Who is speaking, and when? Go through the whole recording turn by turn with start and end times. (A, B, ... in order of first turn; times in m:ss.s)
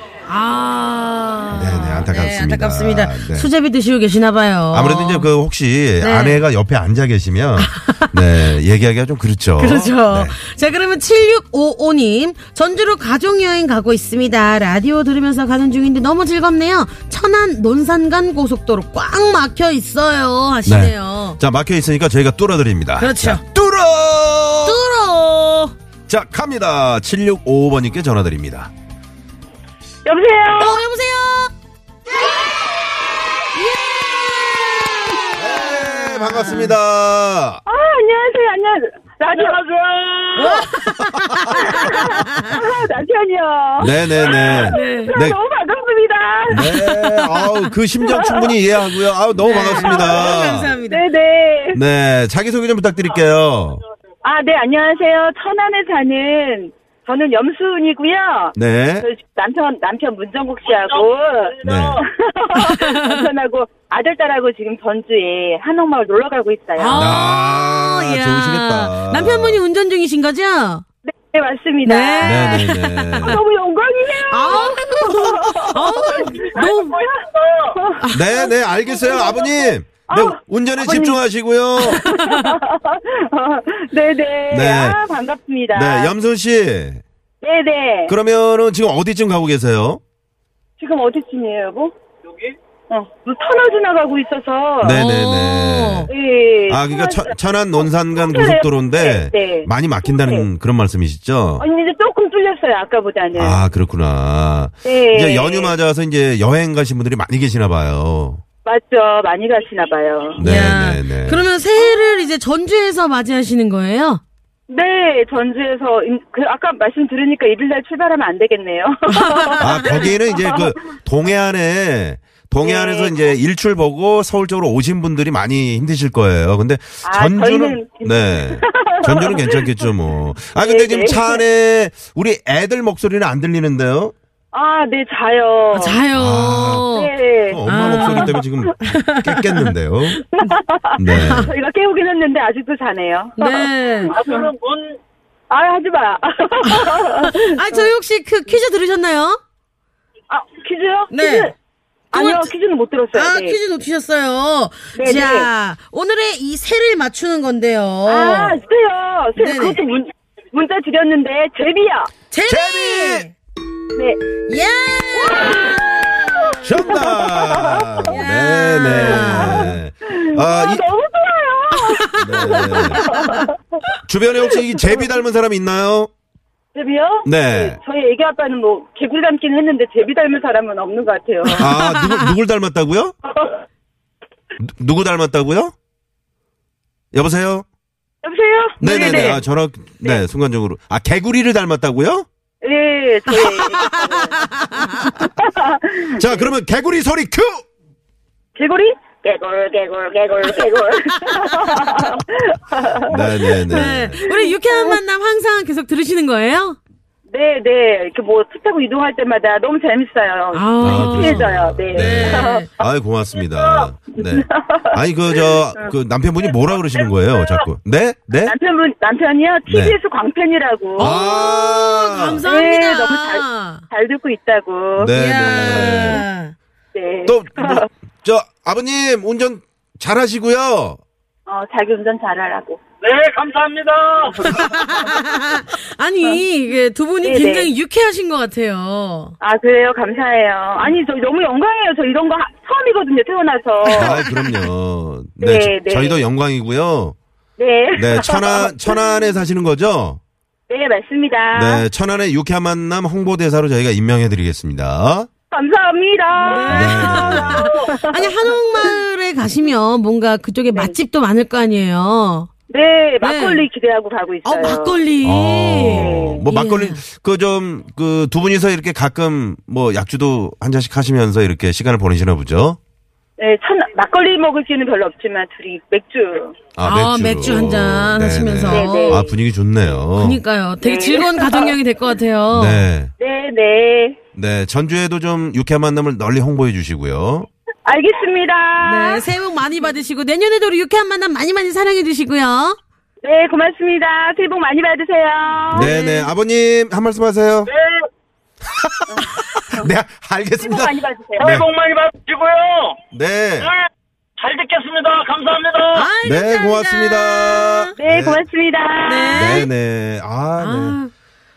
0:00.3-0:05.3 A
0:01.5-0:03.5 B
0:04.7-0:10.4 B
0:06.0-0:06.4 A
0:07.6-0:08.1 A
0:09.6-0:21.4 A
0:20.7-0:24.8 B
0:23.0-0:23.4 A
0:24.6-0:25.7 A
0:26.1-0:28.7 B
0:30.1-0:30.8 C
0:30.6-0:31.5 A
0:33.4-0:36.8 A
0:35.4-0:37.6 B
0:37.7-0:39.7 C
0:39.8-0:40.2 D
0:40.4-0:42.6 A
0:41.6-0:46.9 C
0:43.8-0:45.4 B
0:44.6-0:45.1 A
0:46.5-0:50.8 B
0:46.6-0:47.7 A
0:48.1-0:48.5 C
0:49.4-0:51.0 A
0:49.6-0:51.8 C
0:51.7-0:53.8 B
0:54.2-1:07.0 C
0:58.6-0:59.1 B
1:01.6-1:02.0 B
1:02.6-1:03.2 A
1:06.8-1:10.8 A
1:06.9-1:09.6 B
1:11.0-1:12.7 C
1:11.8-1:13.4 A
1:12.2-1:13.4 B
1:13.2-1:18.1 C
1:14.3-1:17.0 A
1:18.1-1:22.0 B
1:19.0-1:21.2 C
1:21.8-1:26.1 C
1:21.8-1:22.4 A
1:24.5-1:25.0 B
1:25.7-1:27.0 B
1:27.4-1:28.2 C
1:28.1-1:30.0 B
1:30.8-1:31.9 C
1:32.9-1:35.0 C
1:34.8-1:36.1 B
1:34.9-1:36.1 A
1:36.1-1:37.3 C
1:36.7-1:41.7 B
1:38.2-1:40.4 C
1:41.6-1:43.6 C
1:43.3-1:48.4 B
1:44.8-1:45.7 C
1:48.6-1:50.4 C
1:50.4-1:51.4 B
1:50.4-1:54.2 A
1:51.8-1:52.2 C
1:54.7-2:00.7 C
1:59.6-2:14.1 B
2:02.6-2:03.2 C
2:07.0-2:09.2 C
2:10.6-2:11.4 C
2:14.5-2:16.0 C
2:15.7-2:17.1 A
2:16.1-2:16.9 B
2:17.0-2:18.7 C
2:17.5-2:20.2 B
2:17.6-2:19.7 A
2:20.4-2:24.5 C
2:21.0-2:21.5 B
2:21.1-2:21.5 A
2:23.4-2:24.1 A
2:24.6-2:24.9 D
2:25.5-2:27.9 C
2:26.7-2:29.4 A
2:30.3-2:31.5 C
2:31.1-2:31.5 A
2:32.1-2:33.6 C
2:32.1-2:32.5 A
2:33.1-2:38.6 A
2:34.9-2:35.5 C
2:38.1-2:42.1 C
2:39.4-2:39.8 A
2:42.3-2:43.4 A
2:42.4-2:43.3 B
2:43.9-2:44.2 C
2:44.5-2:46.7 A
2:45.2-2:48.1 C
2:46.6-2:50.9 B
2:48.1-2:49.8 A
2:48.9-2:53.5 C
2:52.0-2:53.4 A
2:52.1-2:53.0 B
2:54.0-2:56.1 B
2:56.7-3:01.6 C
2:57.2-2:57.8 B
3:01.5-3:02.3 A
3:01.5-3:03.1 B
3:03.3-3:03.6 C
3:04.6-3:05.7 B
3:07.1-3:07.6 B
3:08.2-3:09.4 C
3:08.8-3:12.2 B
3:12.6-3:14.4 C
3:13.3-3:15.1 A
3:15.1-3:16.5 C
3:16.2-3:17.6 B
3:18.6-3:25.0 C
3:23.1-3:24.2 B
3:23.7-3:26.8 A
3:27.3-3:32.6 C
3:30.5-3:32.7 A
3:30.8-3:38.6 B
3:33.8-3:34.9 C
3:35.4-3:35.9 C
3:38.4-3:41.1 C
3:39.7-3:40.0 B
3:41.0-3:42.4 B
3:41.0-3:43.8 A
3:42.4-3:46.2 C
3:45.0-3:46.2 B
3:45.1-3:46.5 A
3:47.0-3:47.9 C
3:47.3-3:51.0 B
3:51.5-3:52.8 C
3:53.0-3:54.4 D
3:54.4-3:59.4 A
3:57.2-3:57.7 C
3:59.4-4:04.2 C
4:03.9-4:07.2 B
4:04.0-4:04.6 A
4:05.4-4:06.2 C
4:07.6-4:09.2 C
4:08.0-4:10.2 B
4:10.7-4:11.8 C
4:11.5-4:15.3 B
4:15.5-4:18.9 C
4:16.4-4:22.5 A
4:16.7-4:17.7 B
4:22.7-4:25.0 C
4:23.2-4:23.6 A
4:24.4-4:27.0 A
4:25.2-4:32.8 B
4:25.9-4:26.4 C
4:33.4-4:36.6 C
4:36.8-4:40.4 B
4:36.8-4:39.3 A
4:38.7-4:39.3 C
4:40.1-4:42.9 A
4:40.8-4:41.7 C
4:42.5-4:43.1 B
4:43.2-4:44.2 C
4:44.4-4:47.5 B
4:47.9-4:49.2 C
4:48.8-4:52.8 A
4:53.2-4:55.9 C
4:55.7-4:57.7 B
4:55.8-4:56.3 A
4:58.7-5:01.7 B
5:00.6-5:01.6 C
5:01.5-5:03.0 D
5:03.1-5:03.7 B
5:04.4-5:06.0 D
5:05.9-5:08.0 A
5:06.2-5:08.5 B
5:08.0-5:09.6 C
5:09.0-5:09.7 A
5:09.3-5:11.0 B
5:10.6-5:11.1 A